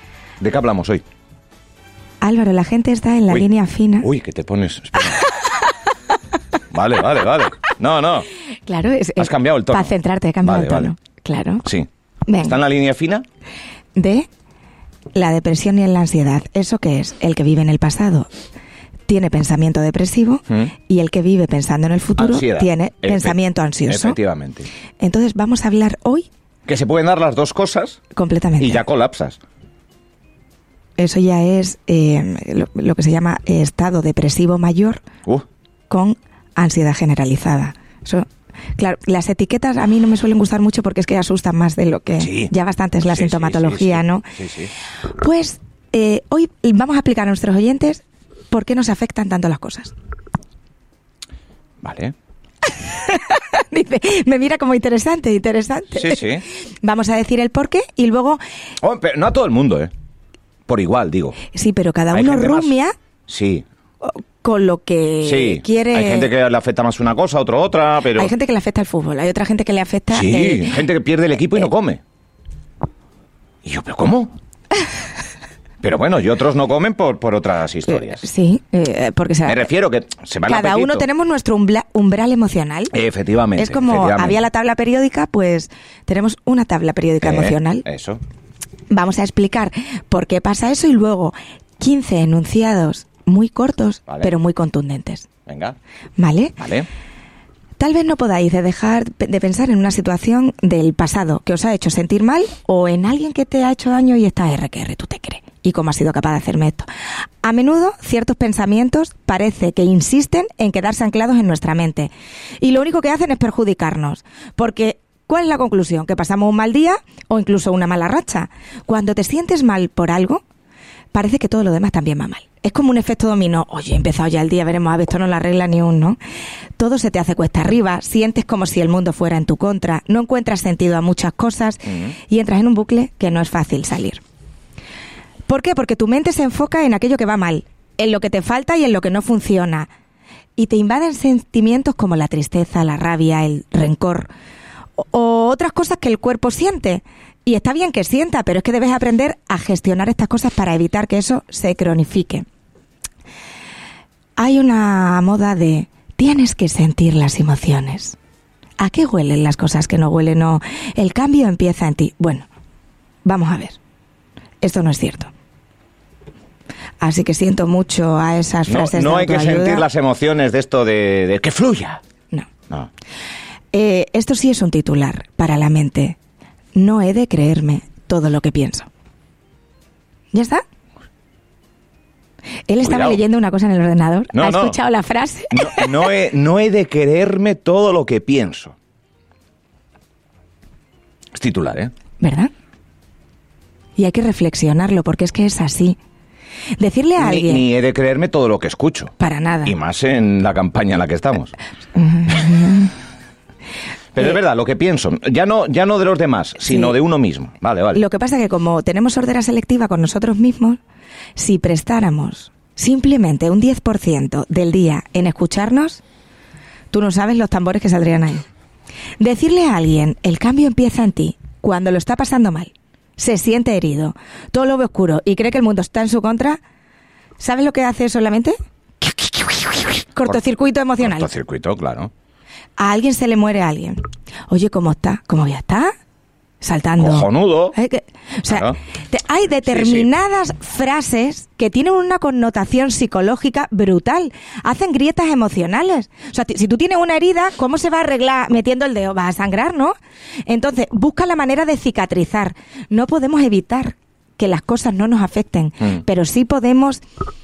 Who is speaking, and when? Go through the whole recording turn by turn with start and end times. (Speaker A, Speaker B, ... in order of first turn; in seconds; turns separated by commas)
Speaker A: 0.4-1.0, Speaker B: 2.2-4.1, Speaker A: 4.0-5.2, Speaker A: 6.7-8.3, Speaker B: 8.7-11.7, Speaker A: 9.2-10.9, Speaker B: 12.3-12.6, Speaker A: 12.4-13.2, Speaker B: 14.0-14.3, Speaker B: 15.2-18.3, Speaker B: 19.1-24.2, Speaker A: 22.2-23.4, Speaker A: 23.9-24.7, Speaker B: 25.0-26.3, Speaker A: 26.7-28.0, Speaker B: 28.2-28.8, Speaker A: 28.6-29.4, Speaker B: 31.0-35.0, Speaker B: 35.9-38.3, Speaker B: 38.8-44.2, Speaker A: 42.2-42.5, Speaker A: 43.1-44.7, Speaker B: 45.2-49.9, Speaker A: 51.8-52.1, Speaker B: 52.8-58.4, Speaker A: 56.0-56.4, Speaker A: 58.8-59.9, Speaker A: 60.7-61.4, Speaker B: 61.5-62.9, Speaker A: 62.1-62.7, Speaker A: 63.3-63.6, Speaker B: 64.0-66.3, Speaker A: 65.2-68.3, Speaker B: 68.1-70.9, Speaker A: 70.1-72.0, Speaker A: 73.7-74.3, Speaker A: 75.8-78.3, Speaker B: 78.0-79.7, Speaker A: 79.5-81.1, Speaker B: 80.5-83.0, Speaker A: 82.9-84.4, Speaker B: 83.6-87.8, Speaker A: 87.2-88.2, Speaker B: 88.9-95.3, Speaker A: 95.5-95.8, Speaker B: 96.2-96.6, Speaker A: 96.6-96.9, Speaker B: 97.8-106.9, Speaker B: 107.4-120.4, Speaker B: 121.1-126.2, Speaker B: 126.8-134.2, Speaker B: 135.5-139.9, Speaker B: 140.6-144.3, Speaker B: 145.0-152.5, Speaker B: 154.4-158.2, Speaker B: 158.8-162.5, Speaker B: 163.2-163.8, Speaker B: 164.6-165.3, Speaker B: 167.0-169.9, Speaker A: 168.7-172.0, Speaker B: 173.7-176.2, Speaker B: 176.7-178.9, Speaker B: 180.3-180.6, Speaker B: 182.7-186.1, Speaker A: 182.8-183.2, Speaker A: 184.3-184.8, Speaker A: 185.5-188.8, Speaker A: 191.3-191.9, Speaker B: 192.2-192.5, Speaker B: 194.0-196.0, Speaker B: 196.8-197.7, Speaker A: 197.2-201.6, Speaker B: 199.2-199.7, Speaker B: 202.0-202.9, Speaker A: 204.1-208.0, Speaker B: 206.7-206.9, Speaker B: 207.9-210.8, Speaker B: 211.4-216.0, Speaker B: 216.9-218.4, Speaker B: 219.2-226.6, Speaker B: 227.4-231.3, Speaker A: 231.0-232.1, Speaker B: 232.8-235.9, Speaker B: 236.6-249.9, Speaker A: 237.0-237.8, Speaker A: 238.5-238.8, Speaker A: 239.6-240.1, Speaker B: 250.5-257.0